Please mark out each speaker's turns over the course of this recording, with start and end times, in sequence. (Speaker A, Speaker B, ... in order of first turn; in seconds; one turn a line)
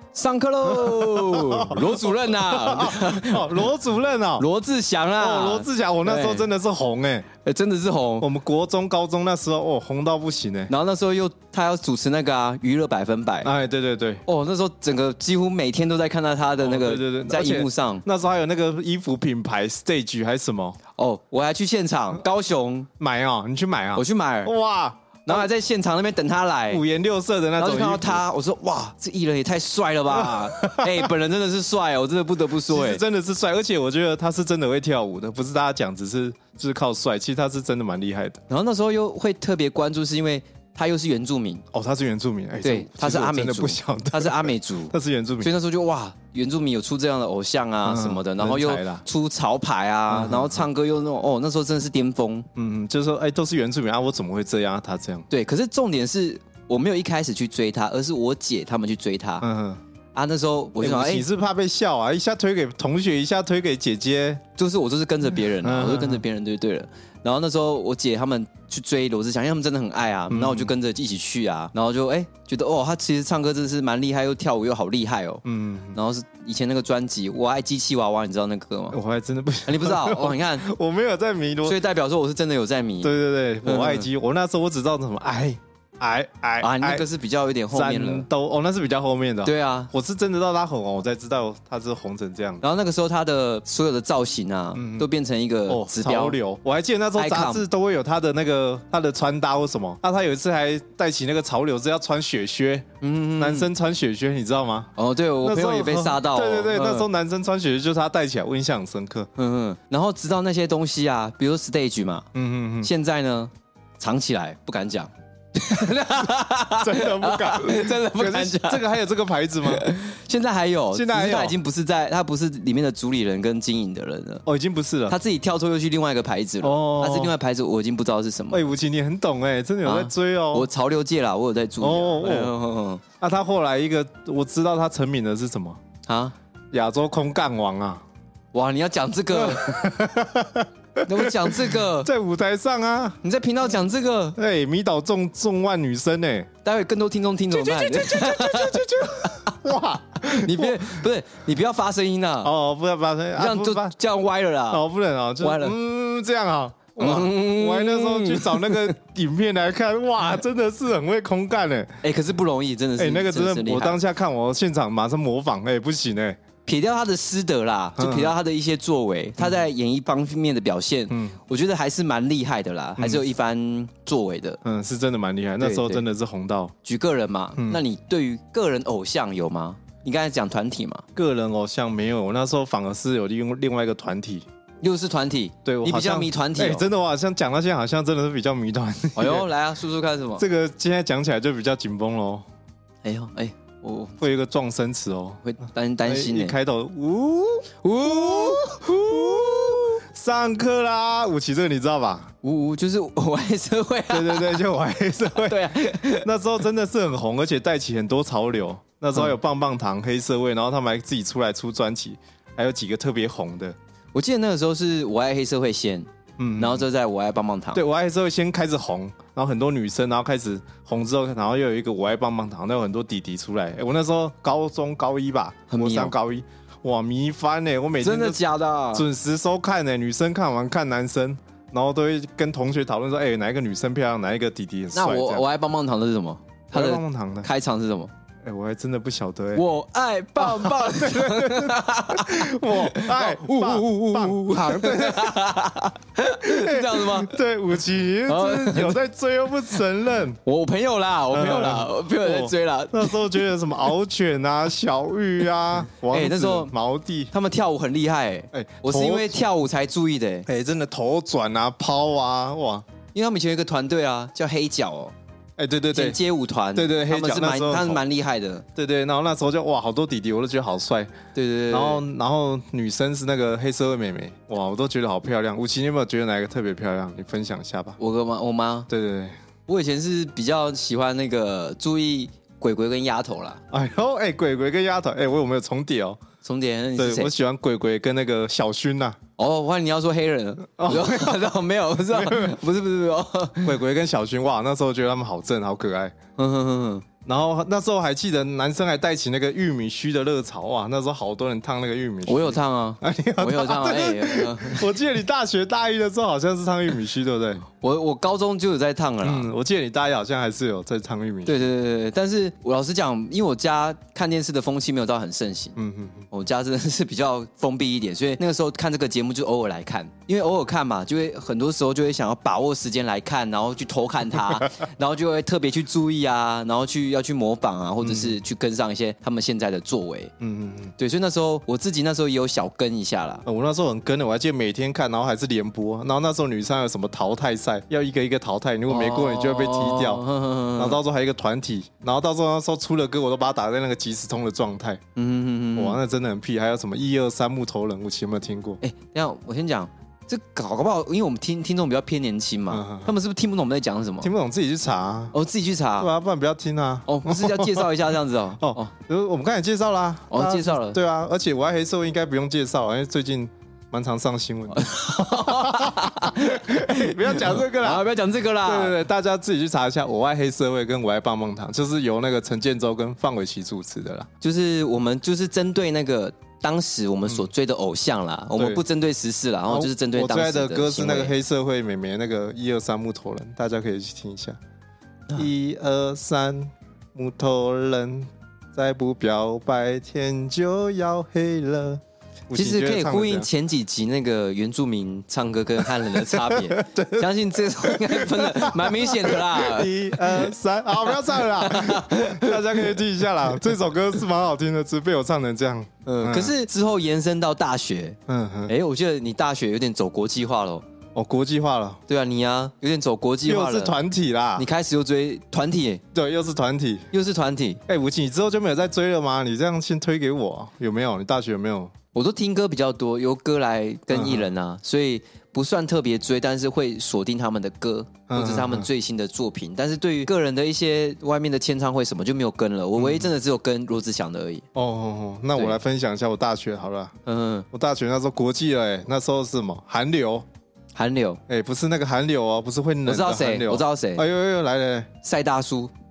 Speaker A: 0.1-3.7
Speaker B: 0.7-4.5
Speaker A: 4.4-6.5
Speaker B: 5.2-7.3
Speaker A: 7.4-8.3
Speaker B: 8.2-10.7
Speaker A: 10.7-13.5
Speaker B: 13.4-14.2
Speaker A: 14.3-18.1
Speaker B: 16.6-20.8
Speaker A: 21.0-22.9
Speaker B: 23.0-25.5
Speaker A: 23.9-24.5
Speaker A: 25.3-26.8
Speaker B: 26.7-28.2
Speaker A: 27.6-33.0
Speaker B: 30.1-31.1
Speaker B: 32.7-38.4
Speaker A: 38.5-41.6
Speaker B: 41.7-45.5
Speaker A: 42.6-52.5
Speaker B: 47.9-49.0
Speaker B: 50.1-50.7
Speaker B: 52.6-55.3
Speaker A: 55.3-59.5
Speaker B: 59.4-59.8
Speaker A: 60.1-61.3
Speaker B: 60.8-64.4
Speaker A: 64.6-75.4
Speaker B: 65.4-66.2
Speaker B: 70.3-70.8
Speaker B: 75.4-76.0
Speaker A: 75.9-79.0
Speaker B: 78.9-81.8
Speaker A: 79.7-80.7
Speaker A: 81.7-83.1
Speaker B: 83.0-87.1
Speaker A: 83.6-84.1
Speaker A: 86.6-88.3
Speaker B: 87.7-92.6
Speaker A: 89.4-89.9
Speaker A: 92.6-96.4
Speaker B: 94.7-95.1
Speaker B: 95.7-109.3
Speaker A: 97.2-97.6
Speaker A: 103.0-103.7
Speaker A: 105.0-107.1
Speaker A: 109.4-112.3
Speaker B: 112.3-112.9
Speaker A: 112.8-118.9
Speaker B: 116.8-120.0
Speaker A: 119.6-124.4
Speaker B: 120.9-121.6
Speaker B: 124.5-125.2
Speaker A: 125.1-128.7
Speaker B: 126.6-127.3
Speaker B: 128.5-130.7
Speaker A: 129.8-133.0
Speaker B: 131.8-132.5
Speaker B: 133.2-135.8
Speaker A: 136.1-136.3
Speaker B: 136.7-138.0
Speaker A: 138.5-139.9
Speaker B: 139.3-143.2
Speaker A: 141.1-142.1
Speaker A: 143.2-144.4
Speaker B: 144.4-146.5
Speaker A: 146.6-149.6
Speaker B: 147.5-151.1
Speaker A: 150.2-152.5
Speaker B: 152.4-153.9
Speaker A: 153.4-154.8
Speaker B: 154.7-162.0
Speaker A: 155.4-155.8
Speaker A: 157.0-158.9
Speaker A: 162.0-164.0
Speaker B: 163.0-166.4
Speaker A: 166.7-174.6
Speaker B: 168.0-168.4
Speaker B: 171.1-171.4
Speaker B: 173.0-173.2
Speaker B: 174.6-176.7
Speaker A: 175.6-176.0
Speaker A: 176.8-181.1
Speaker B: 181.2-184.5
Speaker A: 184.8-186.8
Speaker B: 185.7-189.5
Speaker A: 189.2-190.4
Speaker B: 190.4-192.4
Speaker A: 193.0-194.1
Speaker B: 194.2-195.4
Speaker A: 195.4-196.6
Speaker B: 196.0-202.3
Speaker A: 197.8-200.0
Speaker A: 202.4-204.6
Speaker B: 204.1-213.8
Speaker A: 205.4-206.3
Speaker A: 214.1-217.8
Speaker B: 216.4-216.9
Speaker B: 217.7-228.4
Speaker A: 225.7-226.1
Speaker A: 228.0-229.1
Speaker B: 228.9-235.4
Speaker A: 234.9-238.1
Speaker B: 236.7-237.5
Speaker B: 238.4-239.7
Speaker A: 239.5-247.4
Speaker B: 240.4-245.6
Speaker B: 246.4-250.4
Speaker A: 248.3-249.0
Speaker A: 250.4-253.4
Speaker B: 251.3-257.3
Speaker A: 256.1-256.7
Speaker A: 257.3-260.5
Speaker B: 258.5-259.4
Speaker B: 260.5-262.9
Speaker A: 263.1-265.1
Speaker B: 265.6-266.2
Speaker A: 265.9-268.7
Speaker B: 266.8-268.0
Speaker B: 268.8-271.1
Speaker A: 271.4-272.0
Speaker B: 271.7-278.0
Speaker A: 278.0-278.9
Speaker B: 278.9-279.3
Speaker A: 279.7-283.6
Speaker B: 283.7-286.2
Speaker A: 286.4-287.3
Speaker B: 287.0-289.2
Speaker A: 289.4-293.8
Speaker B: 290.8-291.5
Speaker B: 292.1-292.6
Speaker B: 293.6-296.1
Speaker A: 296.4-297.1
Speaker B: 297.2-307.6
Speaker A: 302.3-305.0
Speaker A: 307.8-309.5
Speaker B: 309.2-311.6
Speaker A: 311.5-315.8
Speaker B: 315.8-316.3
Speaker A: 316.3-330.3
Speaker B: 328.0-328.4
Speaker B: 330.4-330.9
Speaker A: 331.0-333.4
Speaker B: 333.4-345.0
Speaker A: 338.9-341.0
Speaker A: 345.2-346.0
Speaker B: 345.8-348.8
Speaker A: 348.8-354.3
Speaker B: 352.7-353.1
Speaker B: 354.2-355.3
Speaker A: 355.3-356.1
Speaker B: 356.0-358.0
Speaker A: 357.1-358.9
Speaker B: 358.6-368.1
Speaker A: 360.3-361.0
Speaker A: 364.7-369.0
Speaker B: 368.6-374.3
Speaker A: 374.4-381.3
Speaker B: 378.6-378.8
Speaker B: 379.7-384.6
Speaker B: 385.4-393.5
Speaker A: 392.5-403.0
Speaker B: 396.1-406.5
Speaker A: 406.1-410.9
Speaker B: 408.3-408.7
Speaker B: 411.1-412.0
Speaker A: 412.1-414.0
Speaker B: 413.5-414.7
Speaker A: 414.6-416.0
Speaker B: 416.1-417.1
Speaker A: 417.1-417.8
Speaker B: 417.9-421.9
Speaker A: 422.1-434.6
Speaker B: 424.1-424.5
Speaker B: 428.3-428.9
Speaker B: 433.0-433.3
Speaker B: 434.8-437.1
Speaker A: 437.3-437.7
Speaker B: 437.7-440.5
Speaker A: 440.9-441.4
Speaker B: 441.5-445.1
Speaker A: 443.1-444.2
Speaker A: 445.2-445.9